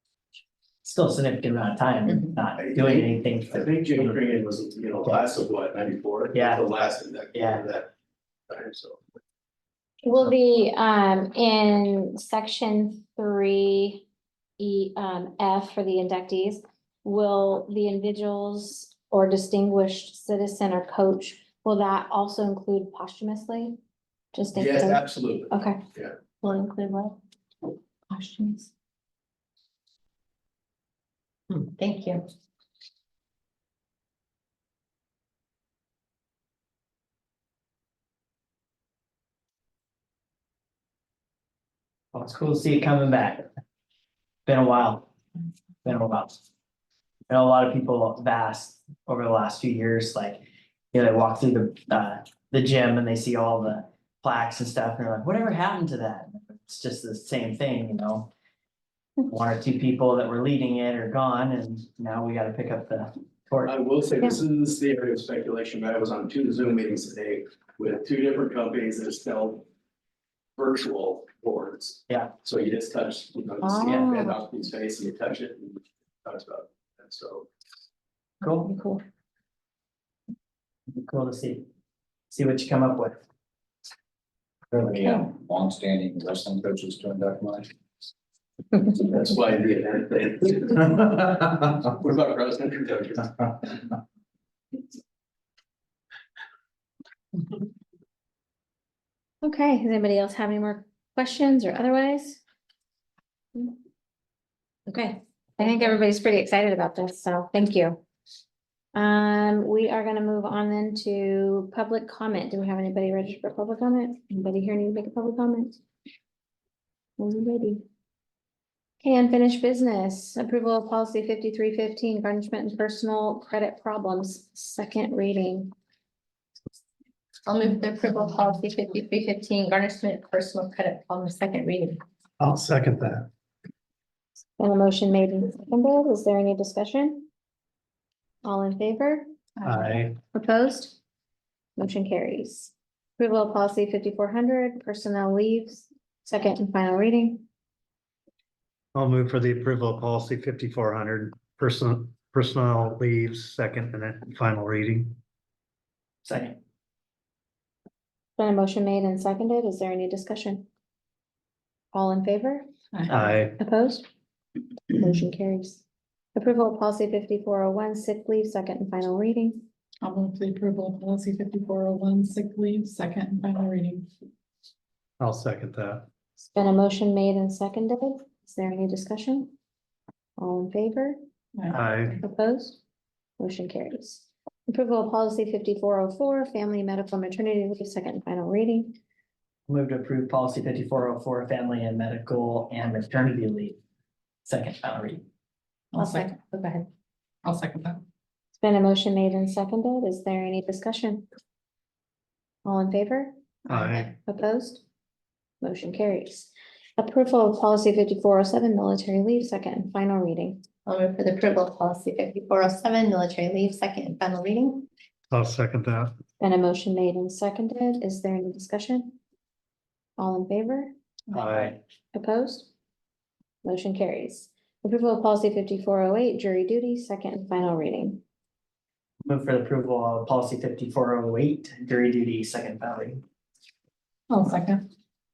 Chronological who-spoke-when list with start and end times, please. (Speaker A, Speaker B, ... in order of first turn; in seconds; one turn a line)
Speaker A: 0.8-4.2
Speaker B: 2.5-7.9
Speaker A: 6.3-7.6
Speaker B: 8.5-9.1
Speaker C: 10.0-14.0
Speaker C: 14.6-23.8
Speaker C: 24.3-25.8
Speaker B: 24.5-26.1
Speaker D: 26.4-27.1
Speaker D: 28.1-28.6
Speaker D: 31.5-32.2
Speaker A: 42.1-43.5
Speaker A: 44.5-45.1
Speaker A: 45.8-46.4
Speaker A: 47.3-58.3
Speaker A: 59.3-63.8
Speaker B: 63.6-69.7
Speaker B: 70.5-77.5
Speaker C: 73.6-74.3
Speaker A: 78.4-78.7
Speaker C: 78.8-79.0
Speaker A: 81.0-81.7
Speaker A: 82.3-83.2
Speaker E: 84.7-87.7
Speaker B: 88.9-93.5
Speaker C: 99.4-102.4
Speaker C: 104.9-108.0
Speaker C: 108.9-115.8
Speaker C: 117.2-117.8
Speaker C: 119.0-125.7
Speaker D: 127.5-132.0
Speaker F: 132.4-133.3
Speaker C: 134.6-137.3
Speaker C: 138.4-139.2
Speaker G: 139.6-140.0
Speaker F: 139.6-140.2
Speaker C: 140.3-141.0
Speaker C: 141.8-147.4
Speaker F: 148.9-155.2
Speaker A: 156.2-156.5
Speaker C: 158.4-160.7
Speaker C: 161.9-162.7
Speaker G: 162.9-163.3
Speaker F: 163.1-163.6
Speaker C: 163.4-164.1
Speaker C: 164.9-165.8
Speaker C: 166.3-169.6
Speaker G: 170.0-174.1
Speaker F: 175.2-176.1
Speaker C: 176.4-179.5
Speaker C: 180.4-181.2
Speaker G: 181.6-181.9
Speaker F: 181.7-182.2
Speaker C: 182.2-182.8
Speaker C: 183.4-189.0
Speaker A: 189.7-193.8
Speaker A: 194.4-195.2
Speaker G: 195.9-196.5
Speaker G: 197.4-198.0
Speaker C: 198.6-201.2
Speaker C: 202.6-203.3
Speaker G: 203.7-204.0
Speaker F: 203.7-204.1
Speaker C: 204.2-204.8
Speaker C: 205.6-210.6
Speaker D: 210.9-214.8
Speaker F: 215.3-216.1
Speaker C: 216.4-219.2
Speaker C: 220.2-220.9
Speaker G: 221.3-221.8
Speaker F: 221.3-221.8
Speaker C: 222.1-222.7
Speaker C: 223.6-228.2
Speaker A: 229.2-233.2
Speaker G: 234.3-234.8